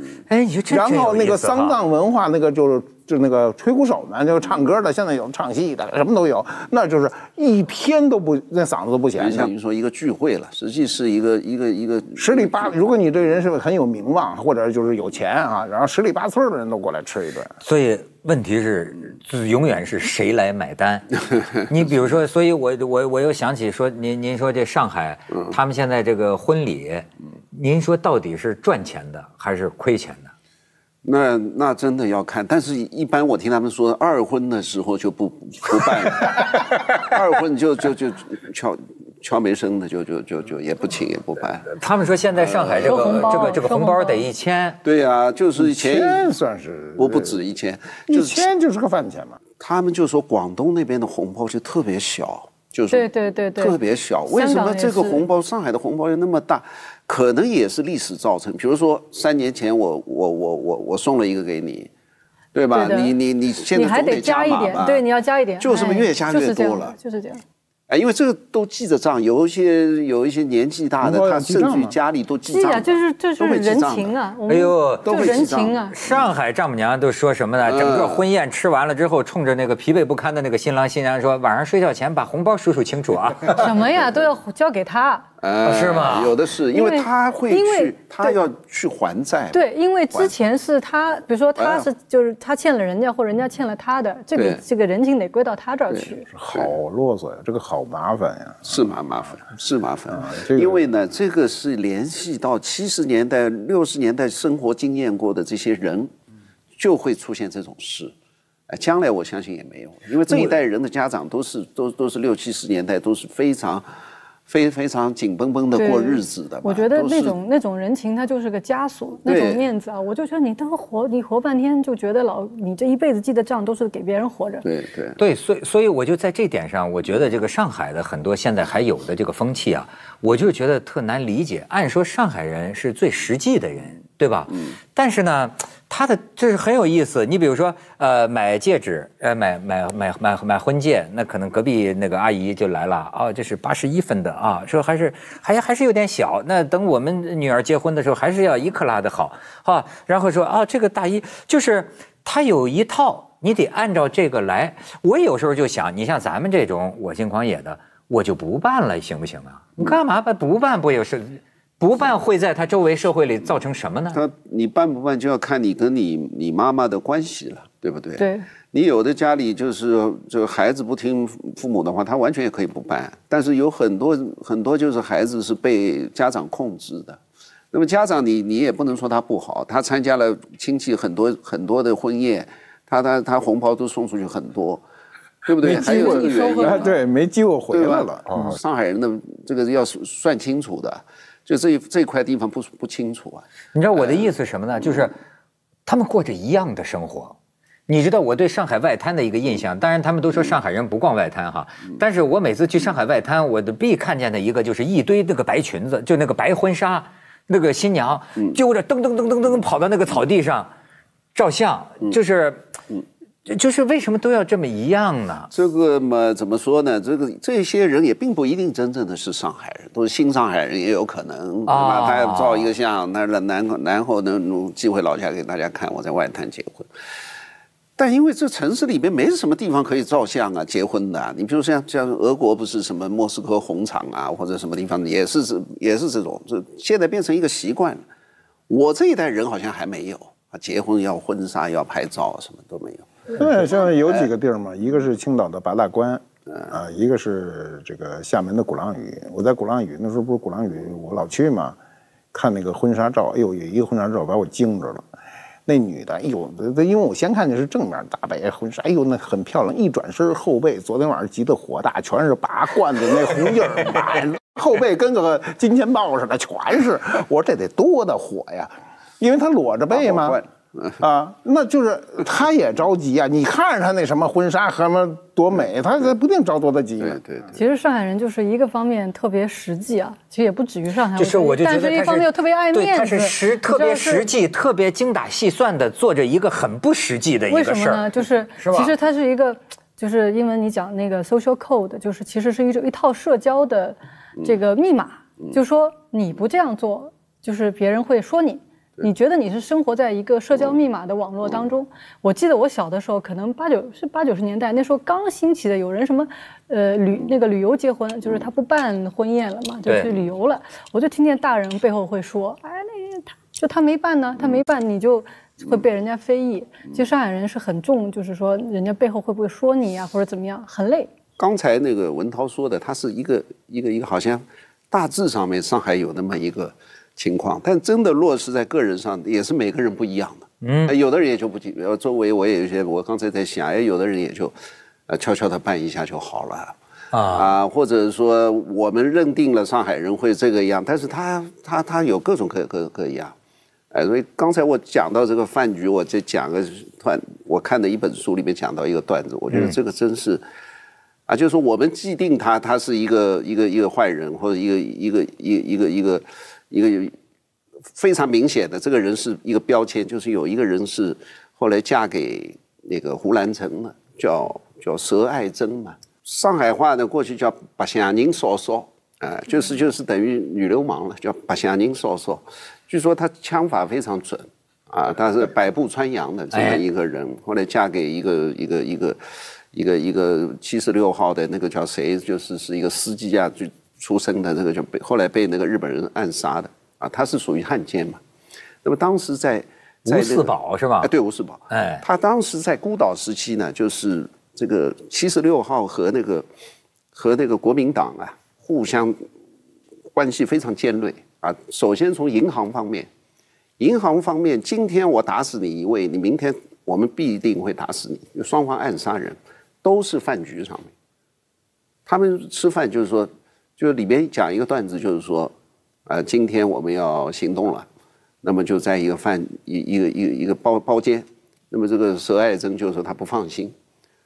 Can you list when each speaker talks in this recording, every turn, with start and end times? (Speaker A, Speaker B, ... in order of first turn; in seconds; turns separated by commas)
Speaker A: 0.3-1.8, Speaker B: 0.7-9.5, Speaker C: 9.2-12.7, Speaker B: 12.2-17.6, Speaker A: 17.6-30.3, Speaker C: 31.0-41.7, Speaker A: 41.7-44.8, Speaker C: 42.4-43.1, Speaker D: 42.8-44.3, Speaker C: 44.8-46.3, Speaker B: 45.6-47.4, Speaker C: 47.0-48.5, Speaker B: 48.1-49.4, Speaker C: 49.6-61.9, Speaker D: 52.9-55.2, Speaker C: 62.5-65.0, Speaker D: 62.7-63.2, Speaker D: 63.7-67.4, Speaker C: 65.6-67.0, Speaker C: 67.9-74.2, Speaker B: 71.0-72.0, Speaker D: 72.5-76.0, Speaker A: 74.5-75.4, Speaker C: 75.0-76.0, Speaker A: 75.9-83.7, Speaker C: 77.7-78.2, Speaker D: 83.5-85.3, Speaker C: 85.4-89.6, Speaker A: 85.6-86.4, Speaker D: 86.7-88.4, Speaker D: 89.5-96.3, Speaker C: 91.6-91.9, Speaker C: 94.3-94.6, Speaker C: 95.9-96.7, Speaker B: 96.3-98.8, Speaker C: 98.7-106.1, Speaker B: 100.1-100.8, Speaker C: 106.8-108.1, Speaker C: 108.7-113.9, Speaker B: 110.3-110.6, Speaker C: 114.5-117.4, Speaker D: 115.8-124.7, Speaker C: 119.3-119.7, Speaker C: 124.6-125.2, Speaker A: 125.2-164.2, Speaker C: 164.1-177.2, Speaker D: 168.2-168.5, Speaker C: 177.7-184.8, Speaker C: 185.4-187.0, Speaker D: 185.6-186.9, Speaker B: 185.6-188.6, Speaker C: 187.7-193.5, Speaker A: 193.7-195.2, Speaker C: 194.0-194.2, Speaker A: 195.9-197.4, Speaker A: 197.9-210.7, Speaker A: 211.3-212.7, Speaker A: 213.5-215.5, Speaker C: 215.5-226.9, Speaker A: 221.7-222.7, Speaker C: 228.0-238.0, Speaker C: 238.7-243.3, Speaker B: 243.4-251.8, Speaker B: 252.3-255.1, Speaker B: 255.7-270.4, Speaker C: 269.9-271.0, Speaker B: 271.0-277.2, Speaker C: 277.0-277.6, Speaker D: 277.5-284.3, Speaker A: 281.2-288.9, Speaker D: 287.5-321.1, Speaker A: 309.9-310.2, Speaker C: 321.4-334.5, Speaker A: 330.6-330.9, Speaker C: 335.1-336.8, Speaker A: 337.1-337.5, Speaker C: 337.3-343.4, Speaker C: 343.9-350.4, Speaker C: 351.3-357.1, Speaker C: 357.9-379.2, Speaker A: 376.5-376.8, Speaker C: 379.7-388.2, Speaker C: 388.8-396.5, Speaker A: 390.1-391.1, Speaker A: 391.7-392.0, Speaker C: 397.1-399.2, Speaker C: 400.1-403.1, Speaker C: 403.8-410.9, Speaker C: 412.1-415.5, Speaker C: 416.1-417.9, Speaker C: 418.4-423.7